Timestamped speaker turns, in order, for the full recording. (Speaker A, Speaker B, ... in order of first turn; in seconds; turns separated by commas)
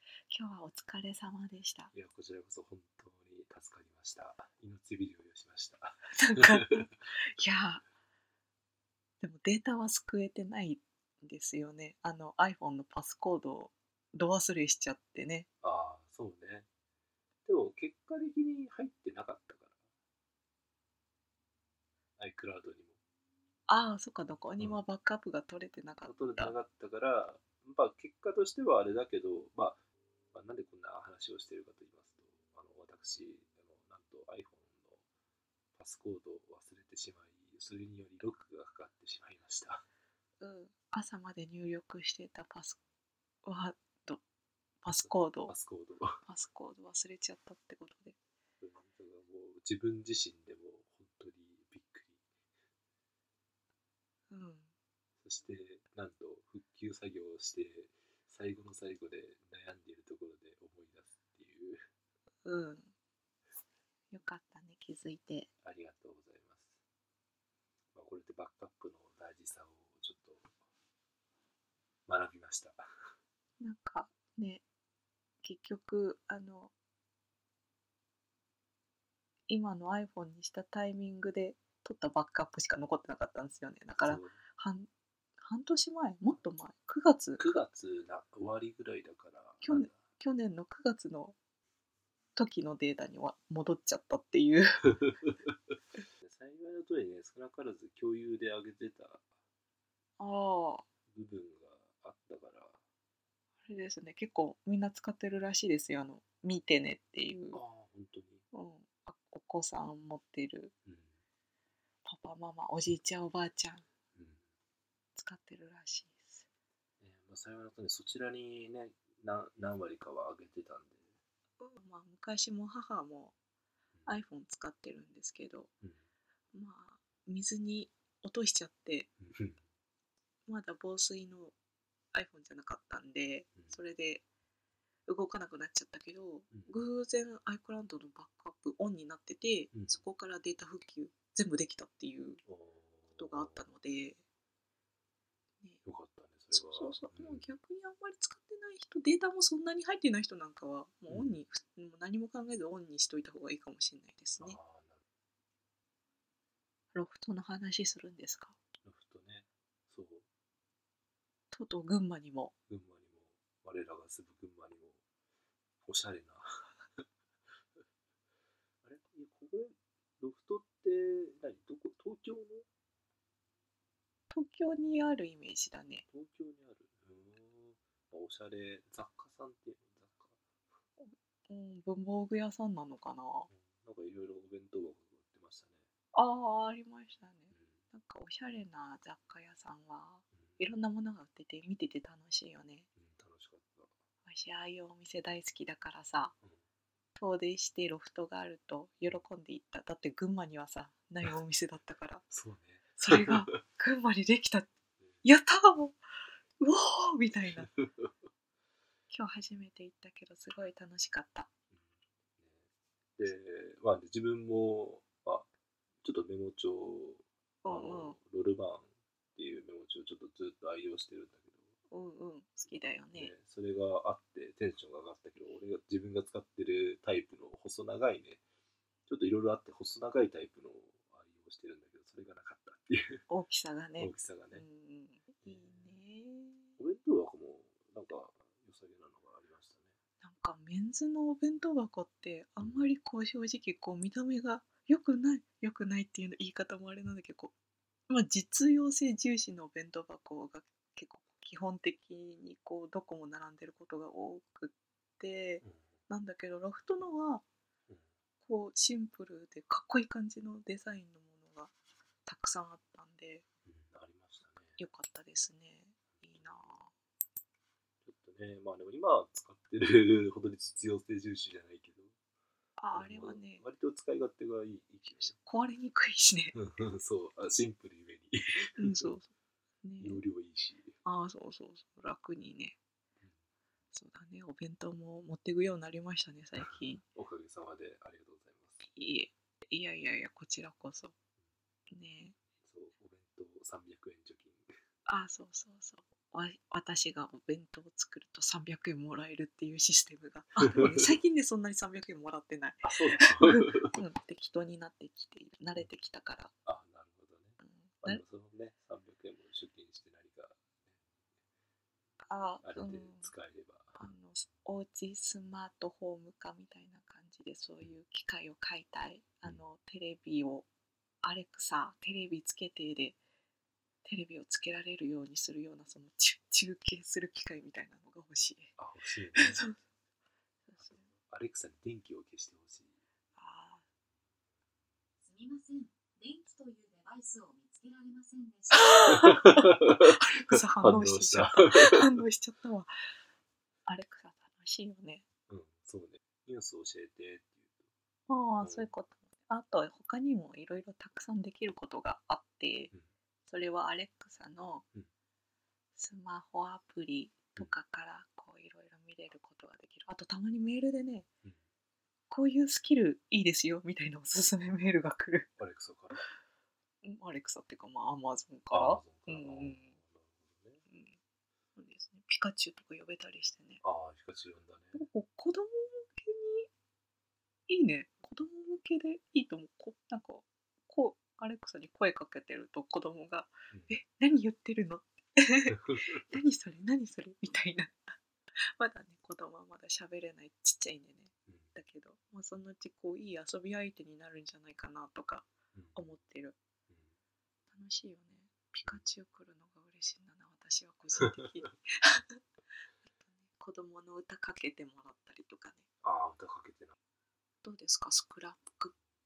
Speaker A: 0.3-1.9, Speaker B: 1.9-7.0, Speaker A: 6.1-7.8, Speaker A: 9.2-15.5, Speaker B: 15.6-16.7, Speaker B: 17.4-19.7, Speaker B: 22.2-23.0, Speaker A: 23.7-26.5, Speaker B: 26.0-29.8, Speaker B: 30.3-35.0, Speaker B: 35.8-39.8, Speaker A: 40.4-42.8, Speaker A: 43.4-44.2, Speaker A: 44.8-45.5, Speaker B: 45.0-46.2, Speaker A: 46.2-48.1, Speaker B: 48.6-52.2, Speaker A: 54.3-54.7, Speaker B: 55.2-61.8, Speaker A: 62.4-62.9, Speaker A: 64.1-65.5, Speaker B: 65.6-66.8, Speaker B: 67.9-70.5, Speaker B: 72.1-72.8, Speaker A: 73.6-74.6, Speaker A: 75.4-76.7, Speaker A: 79.5-84.9, Speaker B: 84.0-84.4, Speaker A: 85.4-87.4, Speaker B: 87.4-90.0, Speaker A: 89.6-91.3, Speaker A: 92.3-95.0, Speaker B: 96.2-99.3, Speaker A: 100.2-100.8, Speaker B: 101.1-102.8, Speaker A: 103.7-107.6, Speaker B: 107.5-108.4, Speaker A: 108.5-110.7, Speaker B: 110.8-111.1, Speaker A: 112.0-113.8, Speaker B: 114.1-114.4, Speaker A: 115.1-116.5, Speaker B: 117.0-121.0, Speaker A: 121.6-123.3, Speaker A: 124.0-125.7, Speaker A: 126.5-129.1, Speaker B: 129.2-129.6, Speaker A: 130.5-131.5, Speaker A: 132.1-134.2, Speaker A: 135.1-142.4, Speaker B: 139.7-140.0, Speaker B: 142.4-143.7, Speaker A: 143.2-144.2, Speaker B: 145.8-147.4, Speaker A: 146.5-154.6, Speaker B: 151.1-151.4, Speaker B: 154.4-155.0, Speaker A: 156.9-158.6, Speaker B: 158.8-160.2, Speaker A: 161.5-162.5, Speaker B: 162.7-165.0, Speaker B: 165.8-166.4, Speaker B: 168.8-172.7, Speaker A: 174.3-176.0, Speaker B: 176.1-180.4, Speaker A: 181.0-183.5, Speaker B: 183.5-185.9, Speaker A: 186.1-192.9, Speaker B: 187.5-187.8, Speaker B: 193.0-193.9, Speaker A: 194.2-196.3, Speaker A: 197.2-202.3, Speaker B: 202.3-203.6, Speaker A: 203.0-204.7, Speaker A: 205.2-206.0, Speaker A: 206.6-207.7, Speaker B: 207.7-208.1, Speaker A: 209.1-211.5, Speaker B: 211.7-215.5, Speaker B: 216.0-221.7, Speaker A: 217.6-218.2, Speaker A: 221.9-223.3, Speaker B: 223.1-228.4, Speaker B: 229.1-233.2, Speaker A: 233.3-236.8, Speaker B: 234.0-234.6, Speaker B: 235.4-235.9, Speaker B: 236.8-239.9, Speaker A: 240.2-247.5, Speaker B: 242.6-242.8, Speaker A: 248.1-257.4, Speaker A: 258.4-261.7, Speaker A: 262.2-263.4, Speaker B: 263.6-264.8, Speaker A: 264.8-266.9, Speaker B: 266.1-266.7, Speaker B: 268.0-272.1, Speaker A: 272.8-273.6, Speaker B: 272.9-275.4, Speaker A: 275.2-276.6, Speaker B: 276.5-279.1, Speaker A: 278.8-279.3, Speaker A: 279.8-280.2, Speaker B: 280.0-280.9, Speaker A: 281.0-282.8, Speaker A: 283.9-287.0, Speaker B: 286.6-288.8, Speaker A: 288.8-291.1, Speaker A: 291.9-292.4, Speaker B: 292.6-294.7, Speaker A: 295.1-306.5, Speaker B: 300.6-301.2, Speaker B: 302.8-304.0, Speaker B: 306.6-310.9, Speaker A: 307.6-308.2, Speaker A: 312.3-313.3, Speaker B: 312.6-314.1, Speaker A: 314.0-320.7, Speaker A: 321.2-323.2, Speaker A: 324.0-328.8, Speaker B: 328.8-329.7, Speaker A: 329.4-329.8, Speaker A: 330.7-331.1, Speaker B: 330.8-332.9, Speaker A: 333.4-333.8, Speaker C: 335.2-338.8, Speaker A: 338.7-342.9, Speaker B: 339.1-342.2, Speaker A: 343.9-345.2, Speaker B: 345.5-347.9, Speaker A: 348.3-352.9, Speaker B: 348.6-348.9, Speaker A: 353.5-354.8, Speaker A: 355.9-361.3, Speaker A: 362.3-365.5, Speaker B: 365.6-366.2, Speaker A: 367.0-369.9, Speaker B: 368.7-370.8, Speaker A: 370.9-371.2, Speaker A: 371.8-373.8, Speaker B: 373.8-375.0, Speaker A: 374.9-376.7, Speaker A: 377.7-388.2, Speaker B: 383.7-384.0, Speaker B: 385.7-386.2, Speaker A: 388.8-396.6, Speaker B: 395.7-396.0, Speaker A: 397.7-402.4, Speaker A: 403.1-405.8, Speaker B: 406.0-406.9, Speaker A: 407.6-408.9